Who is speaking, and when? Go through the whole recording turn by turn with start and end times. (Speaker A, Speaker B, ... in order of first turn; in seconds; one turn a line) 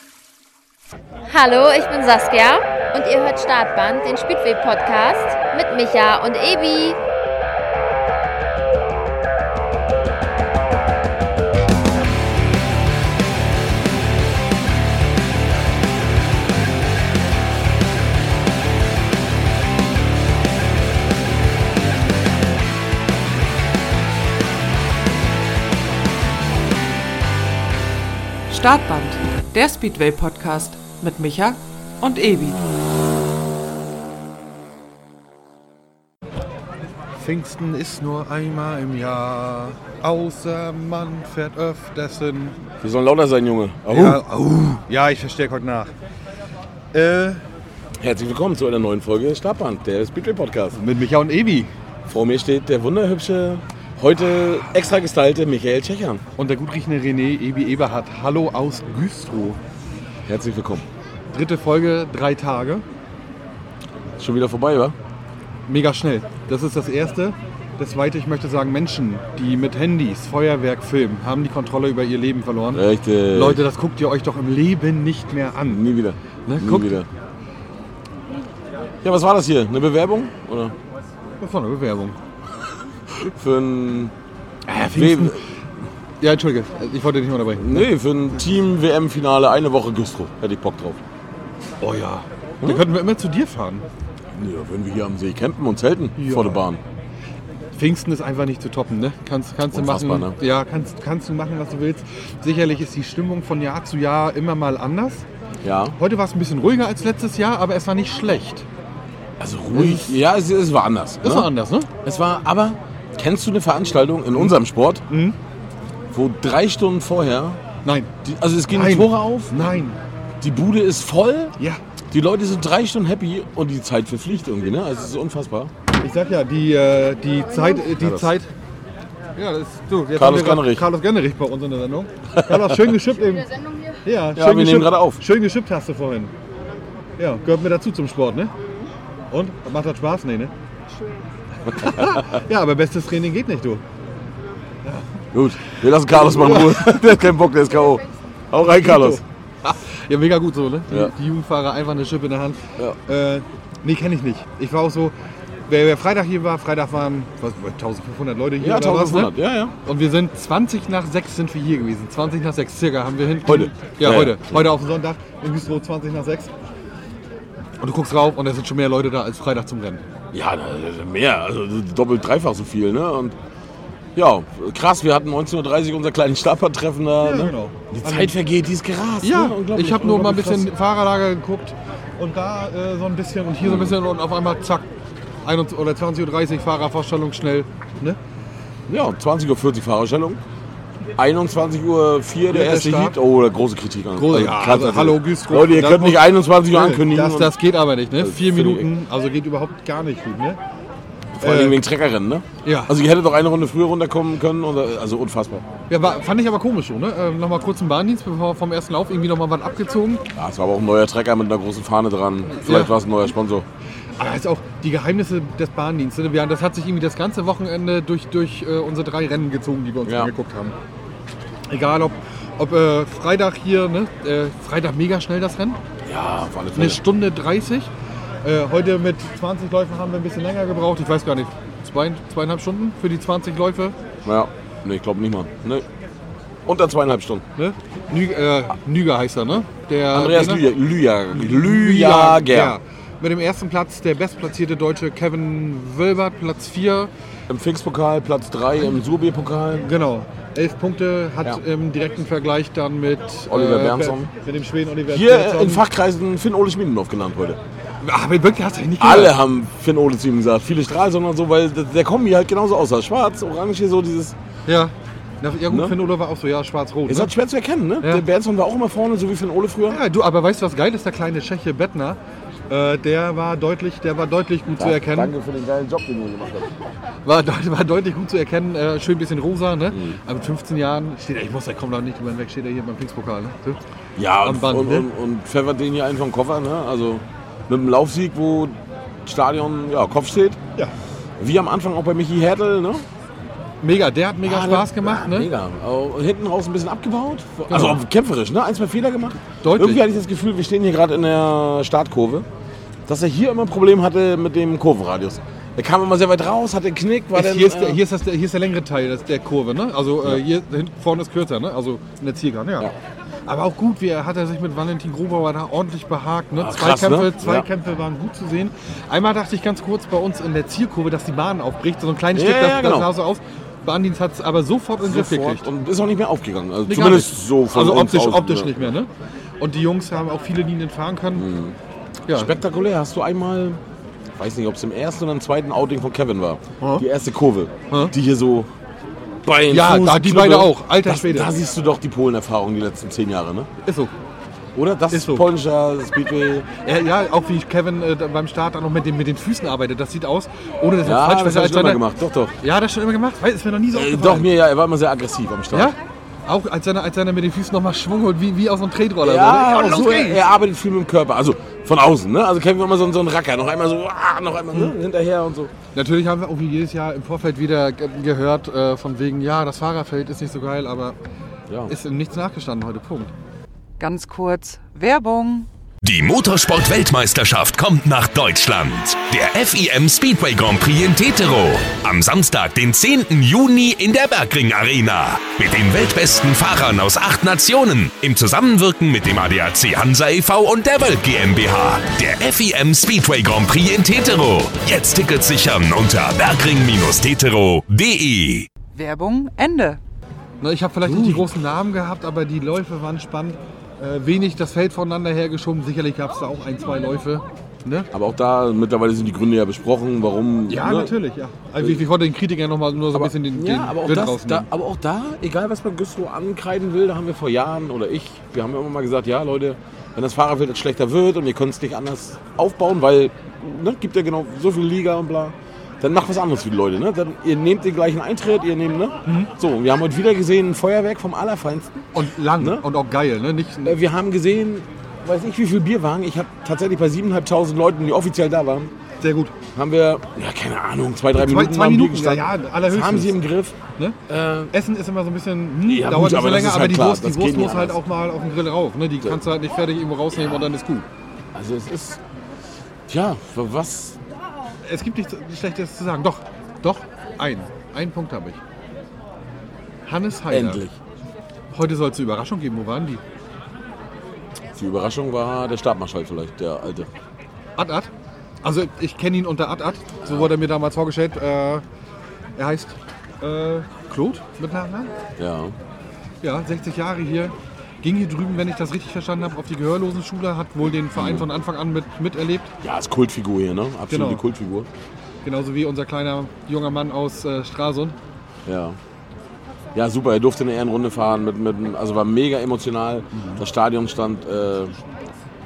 Speaker A: 1.3-7.0
Speaker B: 28.5-32.6
Speaker C: 37.1-42.6
Speaker D: 42.8-44.2
Speaker C: 43.9-45.9
Speaker C: 46.9-47.4
Speaker D: 48.0-50.8
Speaker C: 50.7-51.7
Speaker D: 52.1-56.2
Speaker C: 56.4-59.6
Speaker D: 60.3-60.9
Speaker C: 61.3-62.8
Speaker D: 64.2-64.9
Speaker C: 65.7-75.8
Speaker D: 72.7-73.6
Speaker D: 75.7-77.1
Speaker C: 76.5-77.0
Speaker D: 79.0-80.7
Speaker C: 81.4-82.2
Speaker D: 83.1-84.1
Speaker C: 84.7-85.4
Speaker D: 84.8-85.4
Speaker C: 86.2-87.9
Speaker D: 87.6-91.0
Speaker C: 91.8-93.8
Speaker D: 94.3-96.8
Speaker C: 96.2-96.6
Speaker C: 97.7-105.2
Speaker D: 99.7-100.3
Speaker D: 105.6-106.0
Speaker C: 106.0-108.7
Speaker D: 109.4-111.5
Speaker C: 109.7-110.2
Speaker C: 111.2-111.9
Speaker D: 112.0-115.0
Speaker C: 115.1-115.4
Speaker D: 116.1-117.6
Speaker C: 117.8-118.1
Speaker D: 118.2-119.6
Speaker C: 118.7-120.0
Speaker D: 120.4-121.5
Speaker D: 122.1-125.7
Speaker C: 126.0-128.5
Speaker D: 128.0-128.3
Speaker C: 129.3-136.3
Speaker D: 130.2-130.8
Speaker D: 132.3-132.6
Speaker D: 134.3-135.2
Speaker C: 137.2-138.5
Speaker C: 139.3-140.5
Speaker C: 141.7-143.8
Speaker D: 141.7-142.2
Speaker D: 145.3-149.2
Speaker C: 146.2-147.1
Speaker C: 148.6-155.1
Speaker C: 155.7-159.3
Speaker D: 158.6-159.7
Speaker C: 159.8-166.5
Speaker D: 163.4-164.6
Speaker C: 167.8-170.0
Speaker D: 170.3-173.3
Speaker D: 174.2-180.7
Speaker C: 177.2-178.3
Speaker C: 179.2-184.9
Speaker D: 183.6-183.9
Speaker C: 185.4-188.2
Speaker D: 188.9-190.4
Speaker D: 191.2-197.5
Speaker C: 192.5-193.2
Speaker C: 194.2-200.6
Speaker D: 198.2-198.9
Speaker D: 201.4-205.6
Speaker C: 201.4-201.8
Speaker C: 202.6-202.9
Speaker C: 205.9-210.2
Speaker D: 210.3-213.7
Speaker C: 212.6-212.9
Speaker C: 214.2-220.8
Speaker D: 220.1-220.3
Speaker C: 221.7-225.8
Speaker D: 226.0-227.0
Speaker C: 226.7-227.9
Speaker C: 228.4-234.0
Speaker D: 234.2-235.8
Speaker D: 236.7-237.4
Speaker C: 237.6-240.7
Speaker D: 240.1-242.8
Speaker C: 241.3-247.1
Speaker D: 247.5-249.9
Speaker C: 249.8-255.8
Speaker D: 253.5-254.3
Speaker D: 255.1-257.6
Speaker C: 258.0-259.4
Speaker D: 259.0-264.3
Speaker C: 264.7-267.3
Speaker D: 265.7-265.9
Speaker D: 267.1-270.0
Speaker C: 269.9-275.3
Speaker D: 274.8-276.7
Speaker C: 277.2-283.8
Speaker D: 279.9-280.2
Speaker D: 284.2-290.6
Speaker C: 284.4-285.1
Speaker D: 291.4-293.0
Speaker C: 293.8-295.5
Speaker D: 294.4-302.4
Speaker C: 297.7-298.0
Speaker C: 299.6-300.0
Speaker D: 303.1-308.0
Speaker C: 307.3-312.9
Speaker C: 313.5-325.7
Speaker D: 316.6-317.7
Speaker D: 322.3-323.1
Speaker D: 325.0-328.8
Speaker C: 326.9-331.5
Speaker D: 331.4-331.8
Speaker C: 332.3-332.6
Speaker D: 332.3-333.8
Speaker D: 334.4-338.7
Speaker C: 336.8-337.1
Speaker D: 339.4-343.7
Speaker C: 339.7-341.5
Speaker C: 343.8-344.1
Speaker D: 344.8-346.8
Speaker C: 345.1-345.5
Speaker C: 346.8-352.0
Speaker D: 351.0-352.5
Speaker C: 352.6-354.5
Speaker D: 353.9-355.9
Speaker C: 355.7-360.4
Speaker D: 359.2-365.7
Speaker C: 365.9-371.2
Speaker C: 371.9-373.3
Speaker B: 374.0-375.7
Speaker E: 376.0-398.7
Speaker B: 398.9-400.0
Speaker C: 400.6-408.1
Speaker D: 401.0-401.4
Speaker D: 408.1-411.1
Speaker C: 410.7-414.7
Speaker D: 413.1-432.1
Speaker C: 429.2-429.5
Speaker C: 432.1-434.0
Speaker D: 432.6-432.8
Speaker D: 433.8-438.9
Speaker C: 439.2-439.6
Speaker D: 439.7-443.8
Speaker C: 441.3-443.4
Speaker D: 444.3-444.7
Speaker C: 444.7-451.1
Speaker D: 445.9-448.0
Speaker D: 451.5-452.2
Speaker D: 453.1-454.2
Speaker C: 454.8-458.6
Speaker C: 460.0-460.8
Speaker D: 460.5-461.0
Speaker C: 461.7-463.2
Speaker D: 464.8-467.1
Speaker C: 467.8-468.1
Speaker C: 468.6-471.8
Speaker D: 470.2-470.5
Speaker C: 472.6-475.1
Speaker D: 475.4-475.7
Speaker C: 476.4-482.7
Speaker D: 481.1-481.5
Speaker D: 482.8-484.9
Speaker C: 484.1-484.4
Speaker C: 485.4-488.2
Speaker D: 488.6-489.0
Speaker D: 489.9-495.0
Speaker C: 493.3-493.6